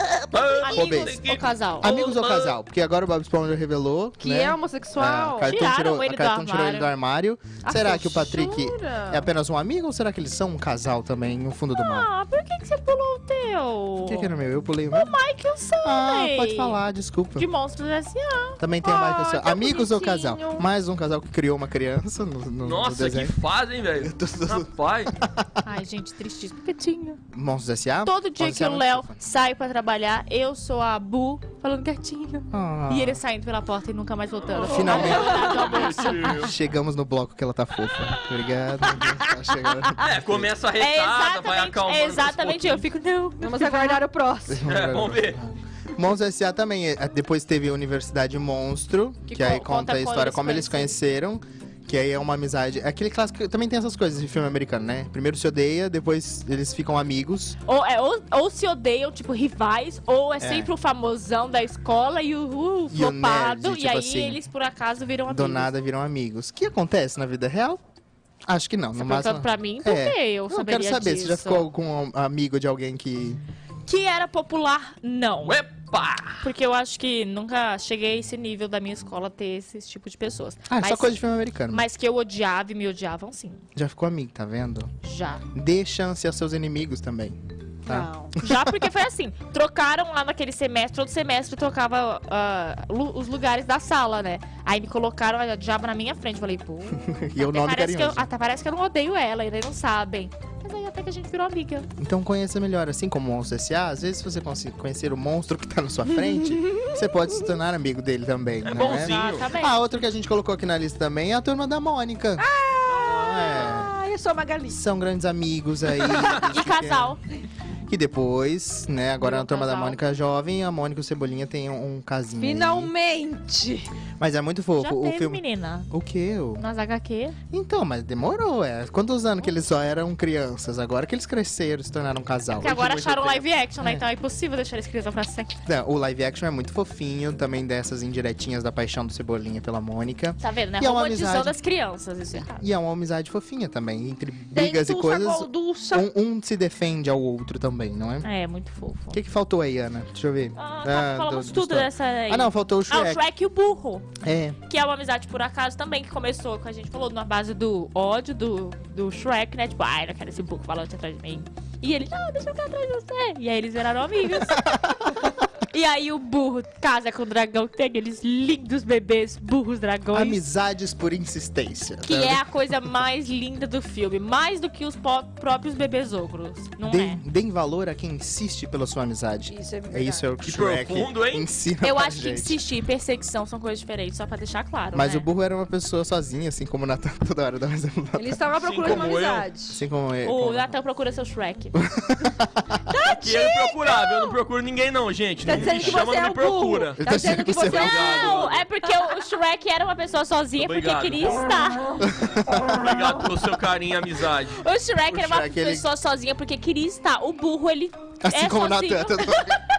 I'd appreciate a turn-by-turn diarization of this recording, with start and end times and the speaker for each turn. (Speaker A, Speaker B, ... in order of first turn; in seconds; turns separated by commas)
Speaker A: 0.3-2.6, Speaker B: 0.6-1.9, Speaker C: 0.7-1.2, Speaker C: 1.8-12.1, Speaker D: 4.2-5.6, Speaker B: 5.5-6.9, Speaker D: 7.7-9.2, Speaker B: 11.7-14.3, Speaker C: 14.0-15.2, Speaker B: 14.9-16.8, Speaker C: 15.8-17.5, Speaker B: 17.4-18.6, Speaker C: 18.6-23.3, Speaker D: 18.8-20.7, Speaker A: 22.6-25.1, Speaker C: 24.0-25.5, Speaker B: 25.6-27.2, Speaker C: 27.3-29.2, Speaker B: 28.0-36.3, Speaker C: 32.5-33.2, Speaker A: 34.5-36.5, Speaker C: 34.6-35.5, Speaker D: 34.6-36.0, Speaker C: 36.3-40.5, Speaker A: 40.0-42.8, Speaker B: 40.8-44.0, Speaker D: 43.4-44.7, Speaker C: 44.5-57.6, Speaker A: 44.6-45.4, Speaker B: 49.3-51.0, Speaker B: 57.6-65.7, Speaker C: 60.4-60.7, Speaker C: 62.9-64.4, Speaker C: 65.3-67.8, Speaker C: 68.5-73.4, Speaker B: 69.0-71.7, Speaker B: 73.9-75.6, Speaker A: 75.4-76.4, Speaker B: 76.4-81.2, Speaker C: 80.7-81.9, Speaker B: 81.7-83.6, Speaker C: 83.7-84.9, Speaker B: 85.0-85.4, Speaker C: 85.5-88.9, Speaker D: 87.9-88.3, Speaker B: 88.4-101.9, Speaker C: 96.9-98.3, Speaker C: 102.0-112.5, Speaker D: 106.1-107.4, Speaker A: 108.6-109.5, Speaker B: 108.7-109.8, Speaker D: 112.4-114.8, Speaker C: 113.0-113.9, Speaker C: 114.7-117.2, Speaker A: 116.1-116.4, Speaker B: 116.4-117.2, Speaker C: 117.9-122.9, Speaker B: 119.2-120.0, Speaker D: 122.4-123.9, Speaker C: 124.2-126.6, Speaker B: 124.8-125.9, Speaker B: 126.6-127.4, Speaker C: 127.5-134.0, Speaker B: 132.6-135.6, Speaker C: 135.6-141.6, Speaker B: 140.4-142.6, Speaker C: 142.5-148.2, Speaker D: 144.5-146.1, Speaker B: 148.2-149.2, Speaker C: 149.1-153.2, Speaker B: 150.6-154.1, Speaker C: 154.2-154.6, Speaker B: 154.7-170.4, Speaker C: 164.4-165.1, Speaker C: 170.1-172.4, Speaker B: 172.0-177.2, Speaker C: 176.8-182.6, Speaker D: 179.5-180.3, Speaker A: 180.4-181.5, Speaker B: 181.8-185.3, Speaker C: 184.9-189.1, Speaker D: 188.2-189.8, Speaker A: 188.6-189.5, Speaker C: 189.7-190.7, Speaker B: 190.2-191.8, Speaker C: 191.7-192.8, Speaker D: 192.9-194.4, Speaker A: 193.0-197.0, Speaker C: 195.4-196.0, Speaker D: 195.4-199.1, Speaker C: 197.0-198.1, Speaker A: 197.6-198.6, Speaker B: 197.7-202.1, Speaker A: 200.6-201.4, Speaker C: 202.0-202.6, Speaker A: 202.5-204.6, Speaker B: 204.5-209.6, Speaker C: 205.1-205.9, Speaker C: 208.2-209.6